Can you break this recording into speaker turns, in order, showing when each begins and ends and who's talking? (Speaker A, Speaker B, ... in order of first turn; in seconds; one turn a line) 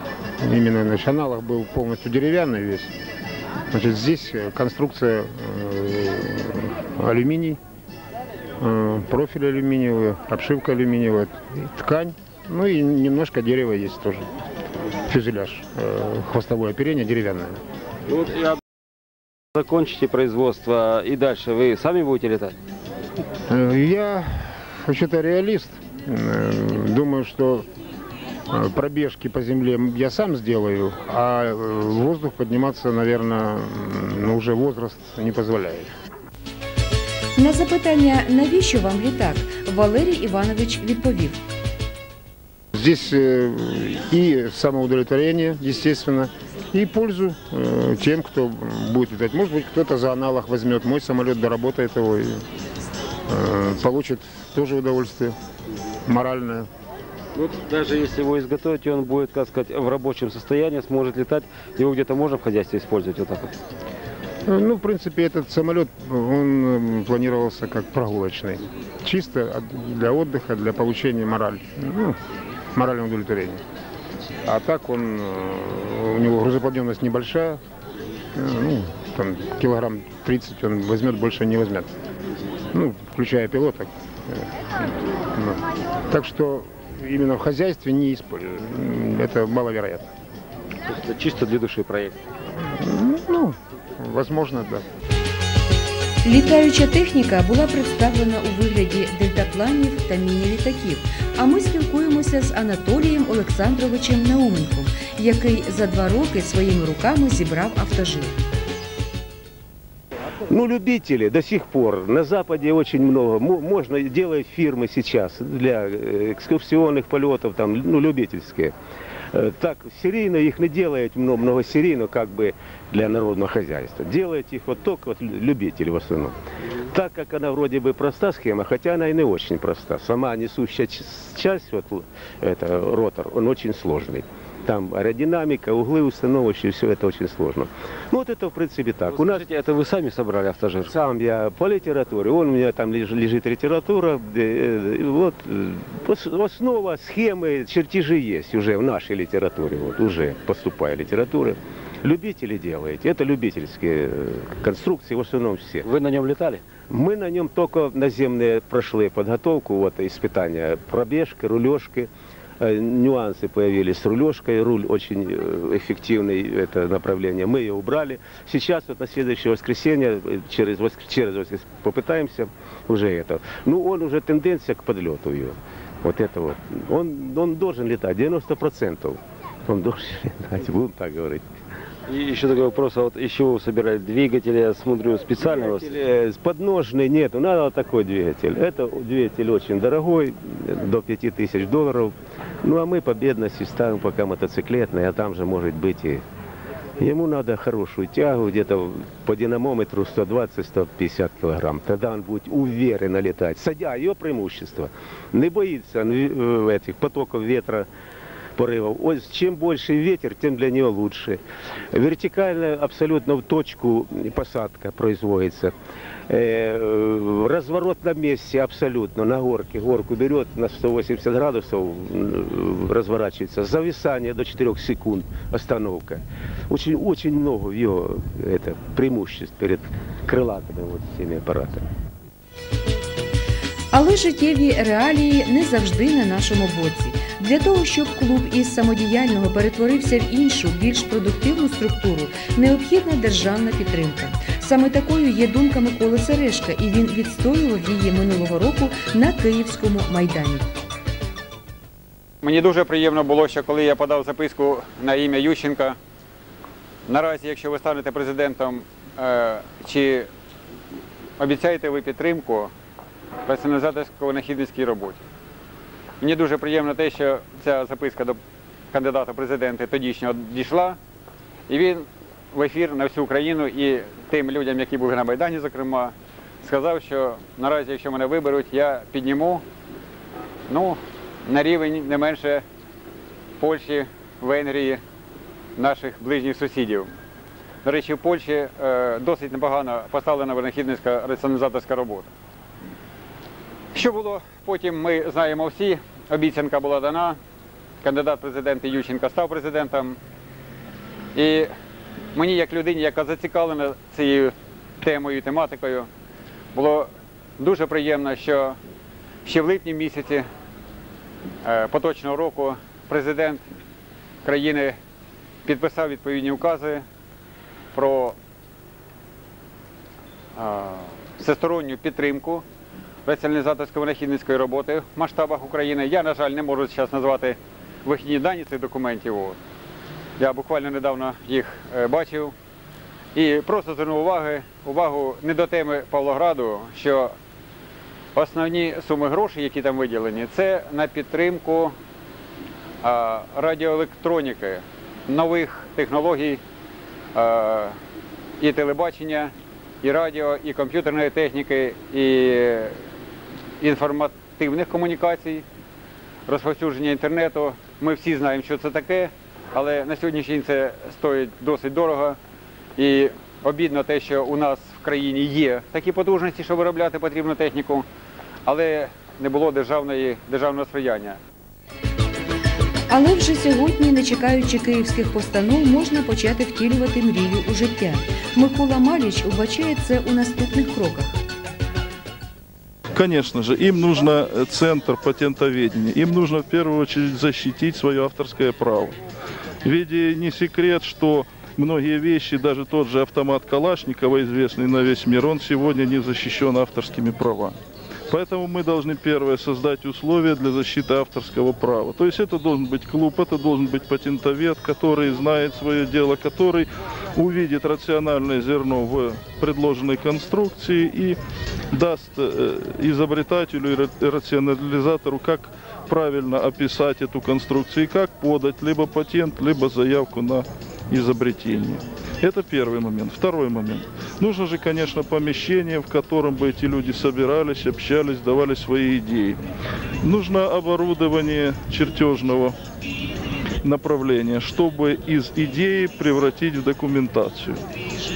Speaker A: 0.4-2.9
Speaker A: 3.7-7.6
Speaker A: 8.6-14.3
Speaker A: 15.1-17.6
Speaker B: 18.1-18.6
Speaker B: 19.6-22.6
Speaker A: 23.5-27.7
Speaker A: 28.5-35.9
Speaker C: 37.4-41.4
Speaker A: 42.7-52.5
Speaker A: 53.3-55.4
Speaker A: 56.1-56.7
Speaker B: 57.4-63.5
Speaker A: 64.5-72.2
Speaker A: 72.7-73.6
Speaker A: 74.5-77.6
Speaker A: 78.3-81.9
Speaker A: 82.7-90.1
Speaker B: 90.9-92.2
Speaker A: 92.6-94.8
Speaker C: 96.2-108.3
Speaker D: 110.5-118.7
Speaker D: 119.3-126.3
Speaker D: 126.9-139.4
Speaker B: 139.1-140.9
Speaker D: 140.9-155.9
Speaker B: 155.8-156.6
Speaker D: 156.9-162.1
Speaker D: 162.6-181.5
Speaker B: 182.1-186.0
Speaker D: 185.5-196.2
Speaker D: 197.0-207.9
Speaker D: 208.6-211.4
Speaker D: 211.9-215.7
Speaker D: 216.3-231.9
Speaker C: 233.9-250.7
Speaker E: 252.4-256.0
Speaker E: 257.1-260.3
Speaker E: 261.4-262.7
Speaker E: 263.5-265.2
Speaker E: 266.2-268.4
Speaker E: 268.9-271.0
Speaker E: 271.7-279.6
Speaker E: 280.7-282.6
Speaker E: 283.6-285.0
Speaker E: 285.8-287.1
Speaker E: 287.9-292.3
Speaker E: 293.9-297.4
Speaker E: 298.0-300.2
Speaker E: 301.4-301.7
Speaker E: 302.3-306.1
Speaker E: 306.7-308.8
Speaker E: 309.4-310.5
Speaker E: 311.6-313.6
Speaker E: 314.4-315.0
Speaker E: 315.6-317.1
Speaker E: 317.9-318.4
Speaker E: 320.6-322.6
Speaker E: 323.2-329.6
Speaker E: 330.4-332.5
Speaker E: 333.4-337.3
Speaker E: 338.4-341.9
Speaker E: 343.0-346.6
Speaker E: 347.3-348.0
Speaker E: 348.6-353.0
Speaker E: 353.8-355.6
Speaker E: 356.5-362.4
Speaker E: 363.0-368.1
Speaker E: 368.7-371.4
Speaker C: 373.1-381.4
Speaker F: 383.1-389.2
Speaker F: 389.8-397.8
Speaker F: 398.3-411.4
Speaker F: 411.9-429.6
Speaker F: 430.2-432.8
Speaker F: 433.8-437.8